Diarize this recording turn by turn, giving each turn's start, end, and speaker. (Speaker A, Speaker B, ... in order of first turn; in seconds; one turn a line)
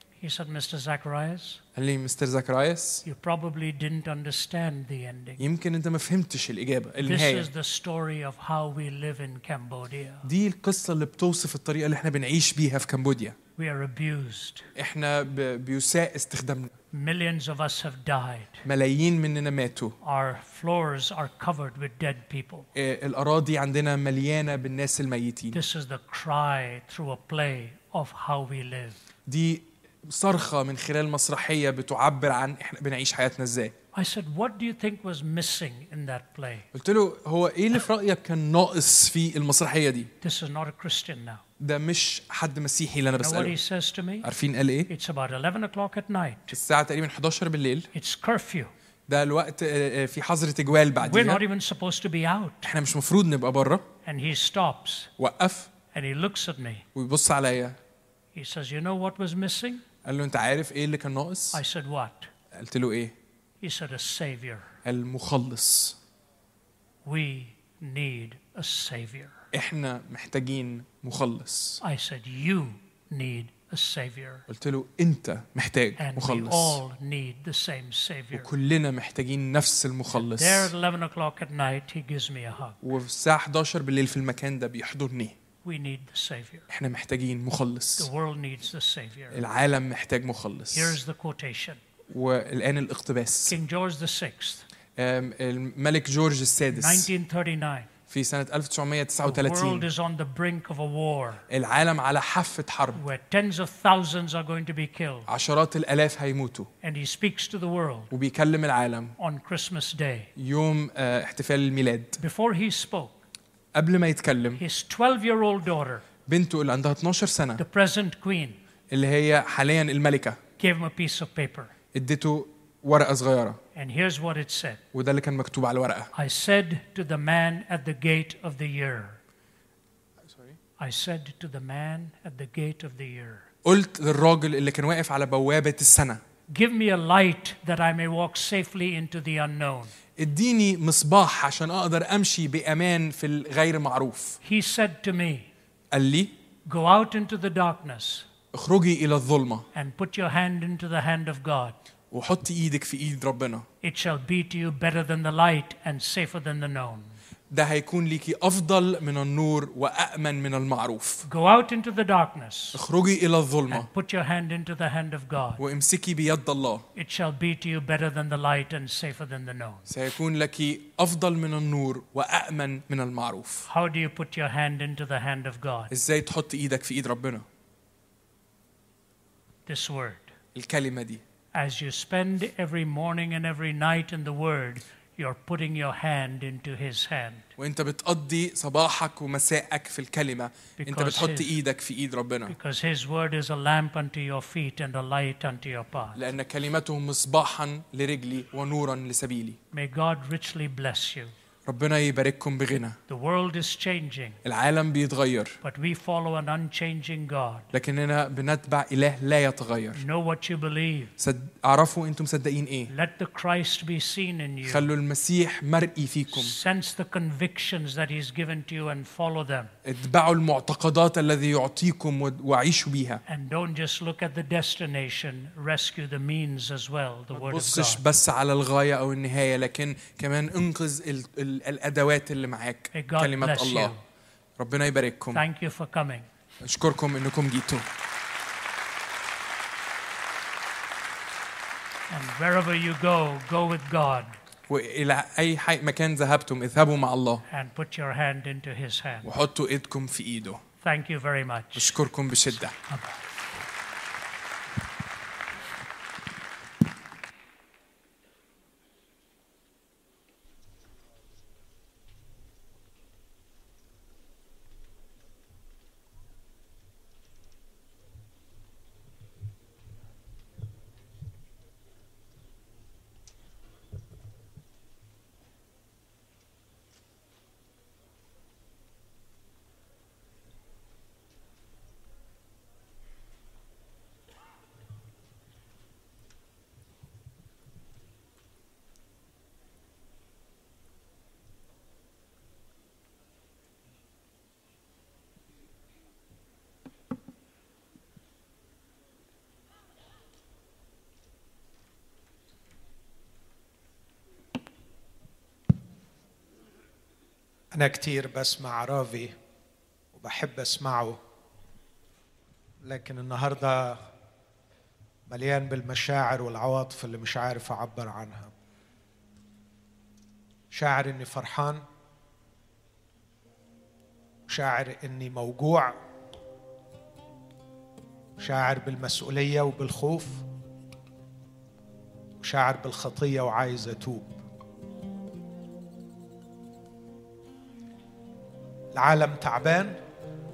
Speaker A: 0.2-1.6
Speaker B: 1.8-3.0
Speaker A: 3.0-5.4
Speaker B: 5.4-7.5
Speaker A: 7.0-10.3
Speaker B: 10.2-13.4
Speaker A: 13.6-14.7
Speaker B: 14.8-16.7
Speaker A: 16.9-18.6
Speaker B: 18.6-19.9
Speaker A: 20.0-22.7
Speaker B: 22.8-25.6
Speaker A: 25.5-29.0
Speaker B: 29.3-33.7
Speaker A: 33.9-36.7
Speaker B: 36.7-40.1
Speaker A: 40.2-41.4
Speaker B: 41.6-43.6
Speaker A: 43.2-44.3
Speaker B: 44.2-44.9
Speaker A: 44.9-46.6
Speaker B: 46.5-47.9
Speaker A: 47.9-48.7
Speaker B: 49.1-51.4
Speaker A: 51.0-52.7
Speaker B: 52.6-53.9
Speaker A: 54.0-55.1
Speaker B: 55.2-55.7
Speaker A: 55.9-56.9
Speaker B: 57.0-57.8
Speaker A: 58.4-59.8
Speaker B: 60.0-61.6
Speaker A: 61.5-62.3
Speaker B: 62.5-63.1
Speaker A: 63.6-64.7
Speaker B: 64.8-66.0
Speaker A: 67.0-69.4
Speaker B: 69.5-71.8
Speaker A: 71.8-74.4
Speaker B: 74.5-76.8
Speaker A: 76.0-78.5
Speaker B: 78.3-80.7
Speaker A: 80.1-82.8
Speaker B: 82.8-85.3
Speaker A: 85.6-86.7
Speaker B: 86.7-88.1
Speaker A: 88.0-89.4
Speaker B: 89.3-91.0
Speaker A: 90.7-91.8
Speaker B: 92.1-93.6
Speaker A: 93.5-94.6
Speaker B: 95.0-97.1
Speaker A: 96.7-97.9
Speaker B: 98.1-99.9
Speaker A: 99.2-101.4
Speaker B: 101.5-103.0
Speaker A: 103.0-105.3
Speaker B: 105.3-106.7
Speaker A: 106.8-108.1
Speaker B: 108.1-109.2
Speaker A: 109.2-110.3
Speaker B: 110.4-112.2
Speaker A: 112.2-113.2
Speaker B: 113.7-114.6
Speaker A: 114.6-116.0
Speaker B: 116.3-117.6
Speaker A: 117.6-118.6
Speaker B: 118.9-120.4
Speaker A: 120.6-121.7
Speaker B: 121.9-123.6
Speaker A: 123.8-124.8
Speaker B: 124.9-126.1
Speaker A: 126.1-129.2
Speaker B: 130.3-130.6
Speaker A: 130.8-133.5
Speaker B: 133.6-136.2
Speaker A: 136.5-139.9
Speaker B: 140.2-144.4
Speaker A: 144.4-145.5
Speaker B: 145.9-146.3
Speaker A: 146.7-148.3
Speaker B: 148.5-149.7
Speaker A: 149.7-151.8
Speaker B: 152.1-153.7
Speaker A: 153.8-157.1
Speaker B: 157.5-161.2
Speaker A: 161.2-162.8
Speaker B: 162.7-163.9
Speaker A: 163.7-165.6
Speaker B: 165.6-166.9
Speaker A: 166.9-169.9
Speaker B: 169.9-173.7
Speaker A: 173.7-175.9
Speaker B: 175.9-177.4
Speaker A: 179.7-180.3
Speaker B: 180.6-181.2
Speaker A: 181.5-187.5
Speaker B: 187.6-192.6
Speaker A: 190.8-191.5
Speaker A: 192.5-196.2
Speaker B: 196.2-199.6
Speaker A: 199.7-201.3
Speaker B: 201.7-203.0
Speaker A: 203.1-204.4
Speaker B: 204.4-205.6
Speaker A: 205.6-207.7
Speaker B: 207.7-210.0
Speaker A: 209.9-211.1
Speaker B: 211.2-212.9
Speaker A: 212.9-214.9
Speaker B: 214.7-216.6
Speaker A: 216.3-219.7
Speaker B: 219.8-223.2
Speaker A: 223.3-228.0
Speaker B: 227.3-233.9
Speaker A: 232.9-234.0
Speaker B: 234.6-235.4
Speaker A: 235.3-236.3
Speaker B: 236.6-237.9
Speaker A: 242.1-244.3
Speaker B: 244.7-247.4
Speaker A: 247.5-249.3
Speaker B: 249.2-250.6
Speaker A: 250.8-252.0
Speaker B: 251.8-252.8
Speaker A: 252.9-253.2
Speaker C: 307.7-309.3
Speaker C: 310.1-311.2
Speaker C: 312.8-314.0
Speaker C: 315.3-318.5
Speaker C: 320.7-321.8
Speaker C: 324.5-325.9
Speaker C: 328.4-330.4
Speaker C: 332.4-334.3
Speaker C: 338.9-339.9